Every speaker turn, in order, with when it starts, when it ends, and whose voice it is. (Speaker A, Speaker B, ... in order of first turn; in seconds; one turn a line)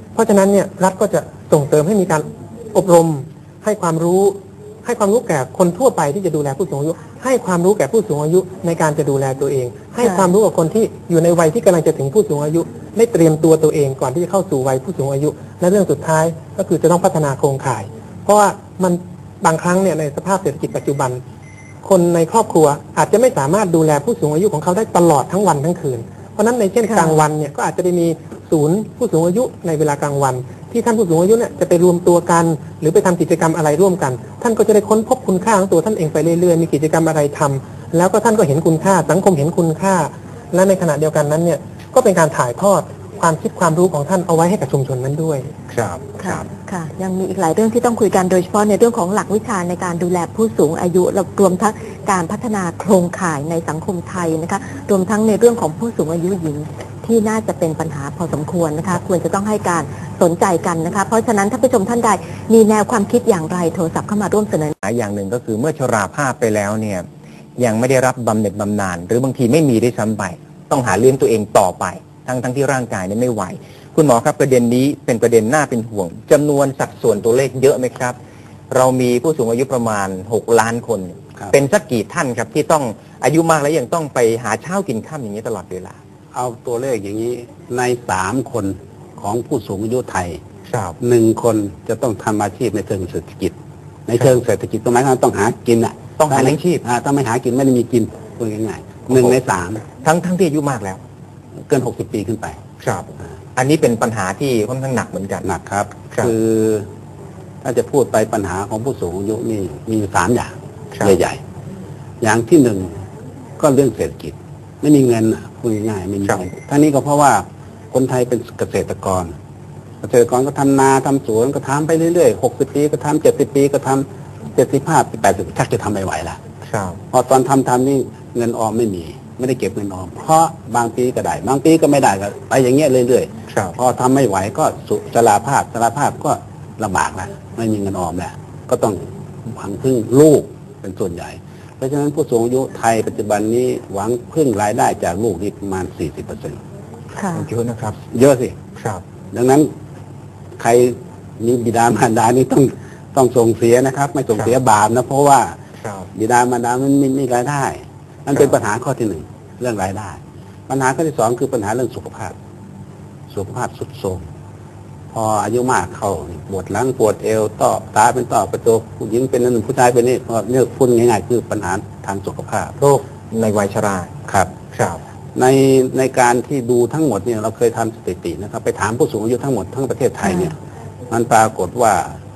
Speaker A: 0.1-21.2
Speaker B: 10.0-10.3
Speaker A: 21.8-45.5
Speaker B: 26.8-27.2
Speaker C: 45.7-46.4
Speaker B: 46.2-64.7
Speaker C: 64.8-67.1
Speaker C: 67.6-78.2
Speaker C: 78.7-86.0
Speaker D: 86.3-90.4
Speaker C: 90.7-91.0
Speaker D: 91.0-93.5
Speaker D: 94.1-99.9
Speaker C: 96.2-96.8
Speaker C: 99.1-99.4
Speaker C: 100.0-101.0
Speaker D: 101.7-102.6
Speaker C: 102.8-105.5
Speaker D: 105.4-106.9
Speaker D: 107.6-111.4
Speaker D: 112.2-113.0
Speaker D: 113.6-119.3
Speaker D: 120.0-126.4
Speaker C: 126.7-127.0
Speaker D: 127.1-146.6
Speaker C: 133.5-133.8
Speaker B: 147.2-147.5
Speaker C: 147.3-148.0
Speaker D: 148.1-148.6
Speaker C: 148.8-149.0
Speaker D: 149.3-149.7
Speaker D: 150.6-155.6
Speaker C: 155.8-156.1
Speaker D: 156.1-162.3
Speaker D: 163.3-164.2
Speaker D: 165.1-172.8
Speaker C: 172.8-174.1
Speaker D: 174.2-174.5
Speaker C: 174.7-175.0
Speaker D: 175.3-180.6
Speaker D: 181.1-182.2